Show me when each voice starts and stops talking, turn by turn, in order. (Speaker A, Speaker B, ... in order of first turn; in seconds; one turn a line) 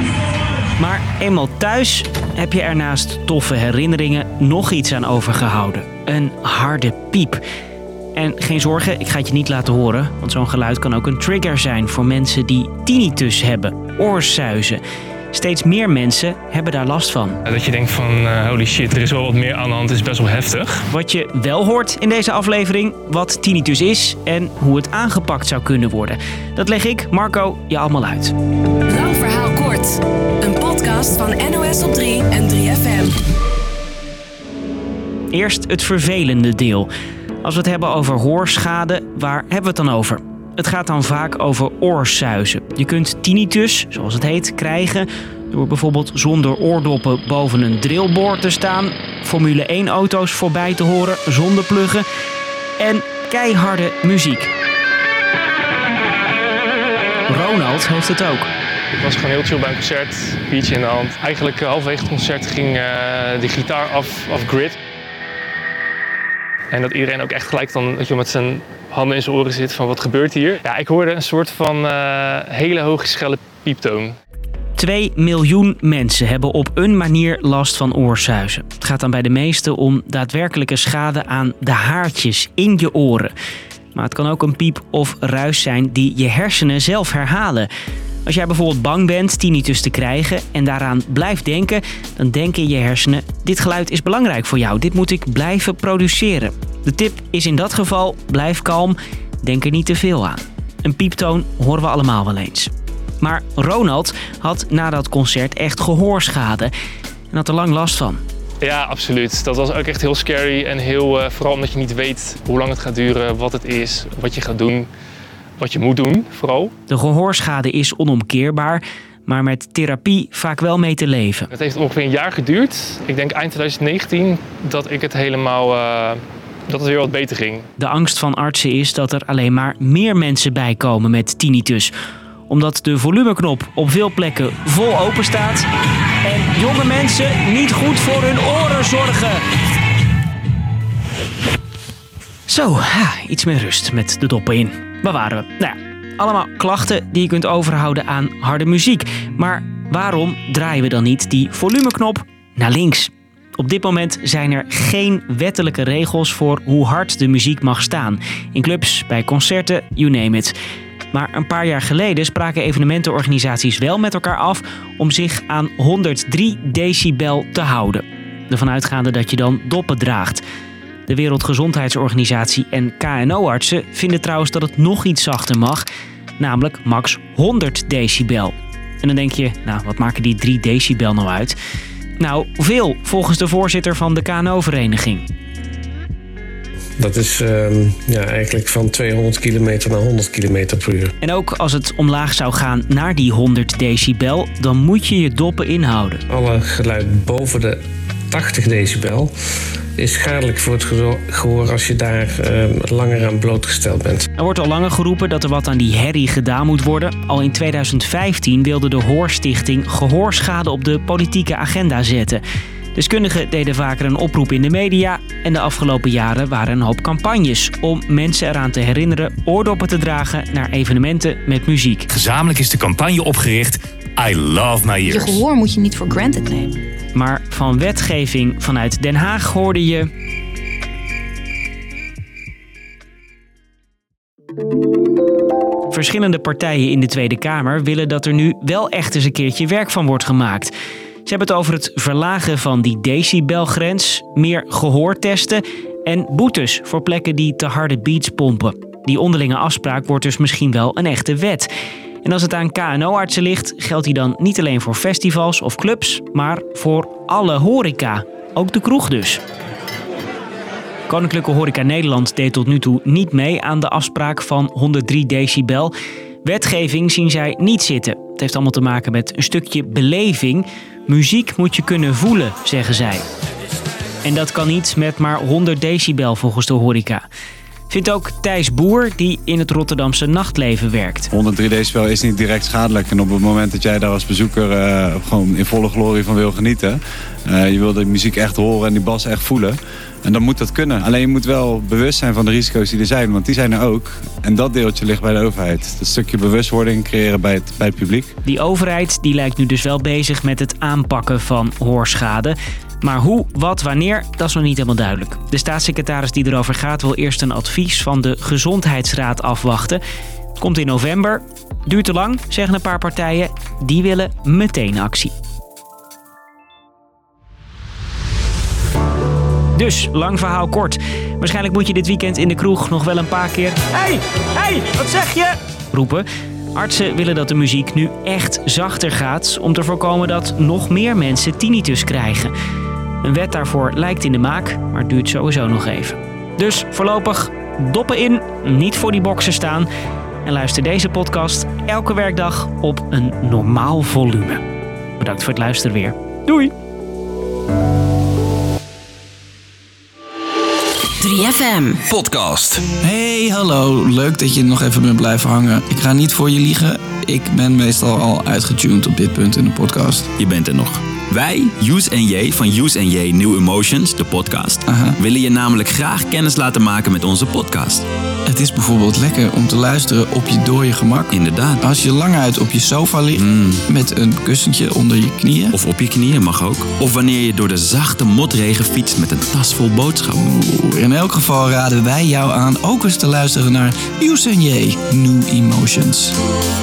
Speaker A: 0.8-7.4
Speaker A: 8.1-14.8
Speaker A: 15.3-17.4
Speaker B: 17.5-20.8
Speaker A: 20.9-28.3
Speaker C: 28.9-33.2
Speaker A: 35.3-36.9
Speaker A: 37.4-52.0
Speaker A: 52.8-54.5
Speaker A: 57.3-58.5
Speaker B: 58.9-64.8
Speaker B: 66.7-74.2
Speaker A: 74.8-83.3
Speaker A: 83.9-87.7
Speaker A: 88.2-106.7
Speaker A: 107.3-108.2
Speaker B: 108.6-114.9
Speaker B: 115.6-116.7
Speaker A: 116.9-121.5
Speaker B: 121.5-127.7
Speaker A: 127.8-131.9
Speaker A: 132.5-135.7
Speaker A: 136.2-139.4
Speaker A: 142.5-160.5
Speaker A: 161.1-170.4
Speaker A: 171.1-175.8
Speaker A: 176.4-181.6
Speaker A: 182.2-185.2
Speaker D: 187.0-191.1
Speaker A: 191.2-196.2
Speaker D: 196.3-199.3
Speaker D: 200.0-204.2
Speaker A: 204.4-212.4
Speaker A: 212.9-222.1
Speaker E: 222.1-225.4
Speaker F: 225.3-226.8
Speaker A: 227.1-230.1
Speaker A: 235.9-240.7
Speaker A: 241.2-251.7
Speaker A: 252.2-259.4
Speaker A: 261.1-265.9
Speaker A: 266.4-273.2
Speaker A: 274.2-277.2
Speaker A: 277.9-281.3
Speaker G: 281.3-298.3
Speaker A: 298.4-310.0
Speaker A: 310.6-315.3
Speaker A: 319.7-332.5
Speaker A: 333.2-339.9
Speaker A: 340.4-344.6
Speaker A: 345.2-346.7
Speaker F: 351.2-352.1
Speaker E: 352.1-352.8
Speaker H: 353.0-360.3
Speaker I: 360.4-368.1
Speaker H: 364.8-365.2
Speaker H: 368.4-375.8
Speaker I: 371.3-371.8
Speaker I: 373.3-373.8
Speaker I: 375.7-380.4
Speaker H: 380.4-386.4